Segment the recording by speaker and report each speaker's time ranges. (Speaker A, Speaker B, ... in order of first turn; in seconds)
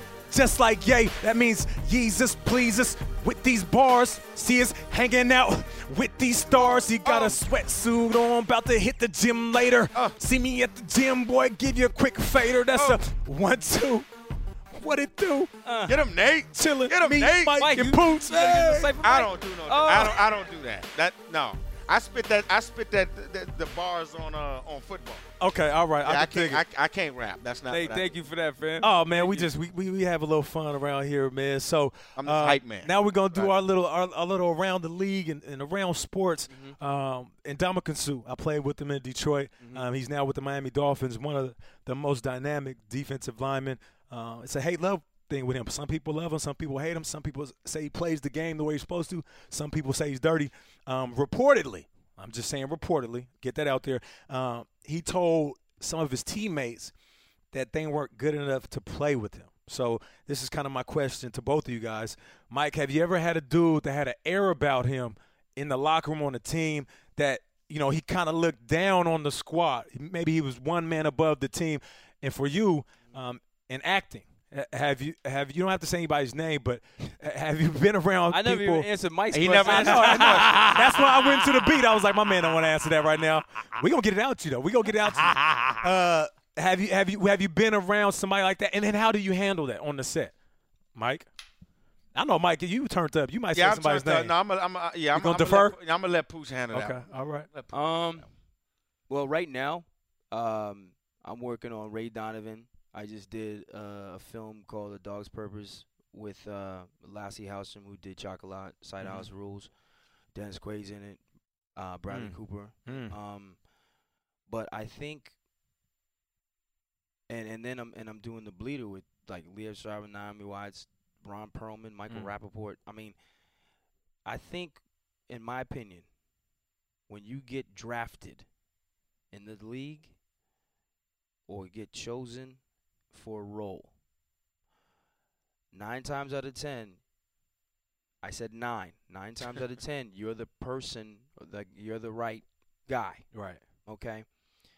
Speaker A: 0.3-14.1, 14.7-15.5, 16.5-18.9, 25.4-26.6, 28.8-56.9, 57.5-78.9, 79.6-90.3, 91.0-91.3, 92.2-94.3, 95.1-95.8, 96.7-97.5, 109.0-109.3, 112.1-113.2, 143.3-143.6
Speaker B: 6.6-7.4, 12.7-13.0, 15.9-17.7, 19.0-25.3, 26.0-28.1, 32.2-33.5, 79.3-81.0, 93.5-98.3
Speaker C: 15.7-16.0, 17.6-20.3, 27.7-29.5, 36.5-36.8, 78.3-81.2, 97.7-98.3, 99.1-109.7, 110.3-111.2, 111.8-113.6, 114.5-115.3, 117.3-123.2, 124.3-126.1, 127.1-128.5, 129.3-130.1, 131.5-132.6, 133.1-133.9, 135.7-137.0, 138.2-143.3, 143.8-144.2